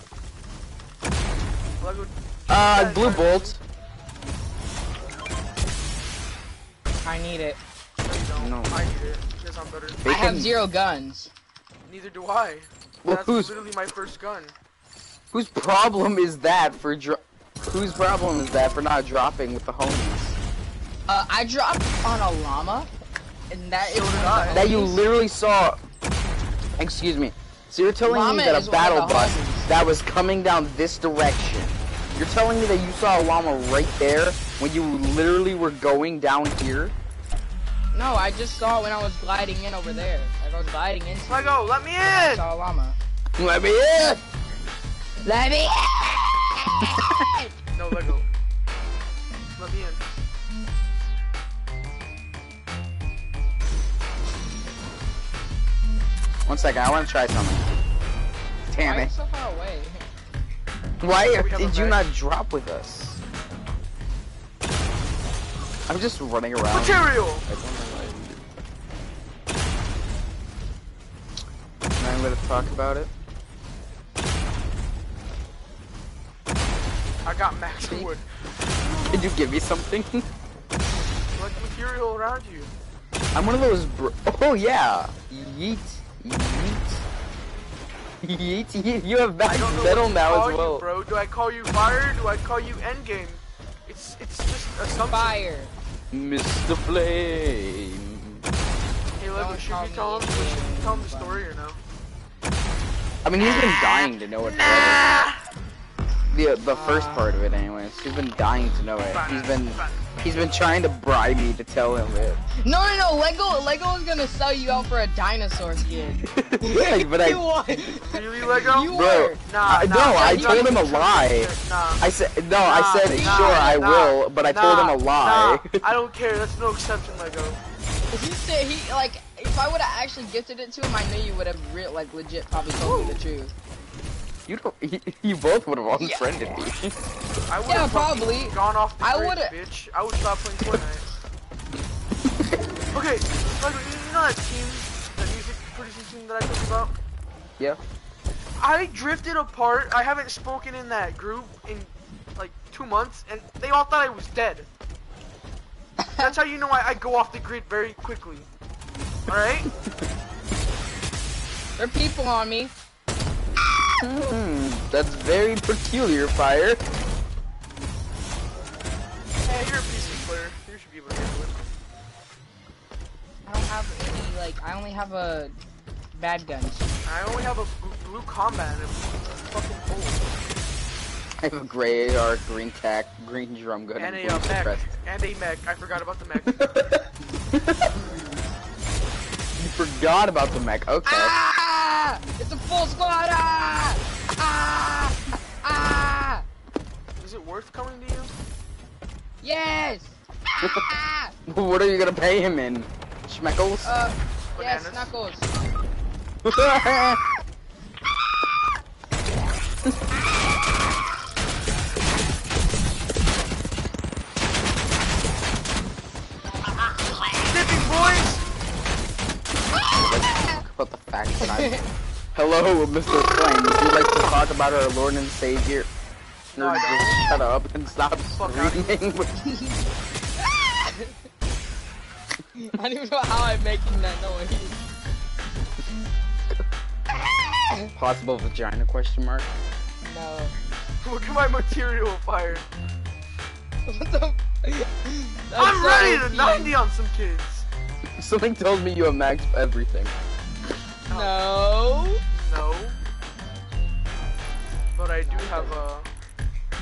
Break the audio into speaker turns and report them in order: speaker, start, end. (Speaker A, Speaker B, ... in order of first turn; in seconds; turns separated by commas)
Speaker A: 1.8-3.6, Speaker B: 2.5-3.6, Speaker C: 7.0-7.6, Speaker A: 8.0-10.0, Speaker B: 8.4-8.7, Speaker B: 10.0-10.6, Speaker C: 10.1-11.3, Speaker A: 11.8-14.6, Speaker B: 13.0-13.6, Speaker B: 15.3-20.4, Speaker C: 21.1-22.9, Speaker C: 23.5-25.0, Speaker A: 23.8-24.7, Speaker B: 24.5-25.8, Speaker B: 26.8-37.0, Speaker C: 28.1-29.7, Speaker C: 37.9-43.0, Speaker A: 41.3-42.5, Speaker B: 43.4-44.2, Speaker C: 45.2-47.5, Speaker A: 47.8-48.3, Speaker A: 49.6-50.0, Speaker B: 56.5-57.7, Speaker B: 58.7-59.1, Speaker C: 58.8-60.0, Speaker B: 61.0-63.2, Speaker A: 61.3-62.0, Speaker B: 65.9-68.4, Speaker A: 66.7-67.5, Speaker B: 72.0-73.1, Speaker A: 77.2-79.3, Speaker B: 79.1-80.3, Speaker A: 81.4-82.7, Speaker B: 83.3-87.0, Speaker B: 88.2-90.9, Speaker A: 89.4-95.4, Speaker C: 95.1-95.7, Speaker B: 96.1-98.4, Speaker A: 99.2-101.8, Speaker C: 99.3-101.5, Speaker B: 103.2-105.0, Speaker A: 103.4-105.4, Speaker B: 106.3-112.4, Speaker C: 106.7-107.3, Speaker A: 109.1-110.2, Speaker C: 112.6-119.4, Speaker B: 116.3-117.4, Speaker A: 118.0-122.0, Speaker B: 118.9-125.8, Speaker C: 120.1-120.8, Speaker A: 122.6-127.6, Speaker C: 123.0-123.8, Speaker C: 128.1-133.5, Speaker A: 132.8-133.2, Speaker B: 134.5-137.0, Speaker C: 135.9-136.4, Speaker A: 137.5-141.1, Speaker C: 137.7-139.5, Speaker A: 142.9-147.0, Speaker A: 148.6-154.7, Speaker C: 156.0-156.3, Speaker A: 156.2-158.5, Speaker A: 159.3-159.7, Speaker C: 161.8-162.7, Speaker B: 164.0-166.8, Speaker A: 169.4-171.7, Speaker C: 169.8-170.3, Speaker C: 173.5-175.6, Speaker C: 176.2-176.9, Speaker A: 177.1-180.3, Speaker B: 181.4-184.9, Speaker A: 184.0-186.6, Speaker B: 186.5-188.1, Speaker B: 189.6-191.3, Speaker C: 191.1-196.5, Speaker A: 197.2-198.3, Speaker C: 199.4-201.3, Speaker B: 201.5-203.9, Speaker C: 203.8-205.5, Speaker A: 204.6-205.1, Speaker B: 206.4-207.2, Speaker A: 217.5-218.4, Speaker C: 219.7-220.6, Speaker B: 219.9-221.8, Speaker C: 221.4-221.9, Speaker B: 222.3-225.9, Speaker A: 226.5-227.3, Speaker B: 226.6-229.3, Speaker A: 228.4-229.1, Speaker C: 229.4-231.2, Speaker C: 232.6-234.9, Speaker C: 237.3-237.9, Speaker B: 238.0-239.5, Speaker C: 240.0-240.6, Speaker A: 241.0-242.7, Speaker C: 243.9-246.7, Speaker A: 245.6-247.7, Speaker B: 248.2-250.2, Speaker A: 251.1-251.4, Speaker C: 251.1-252.2, Speaker A: 252.3-253.0, Speaker A: 254.9-256.1, Speaker C: 255.2-255.8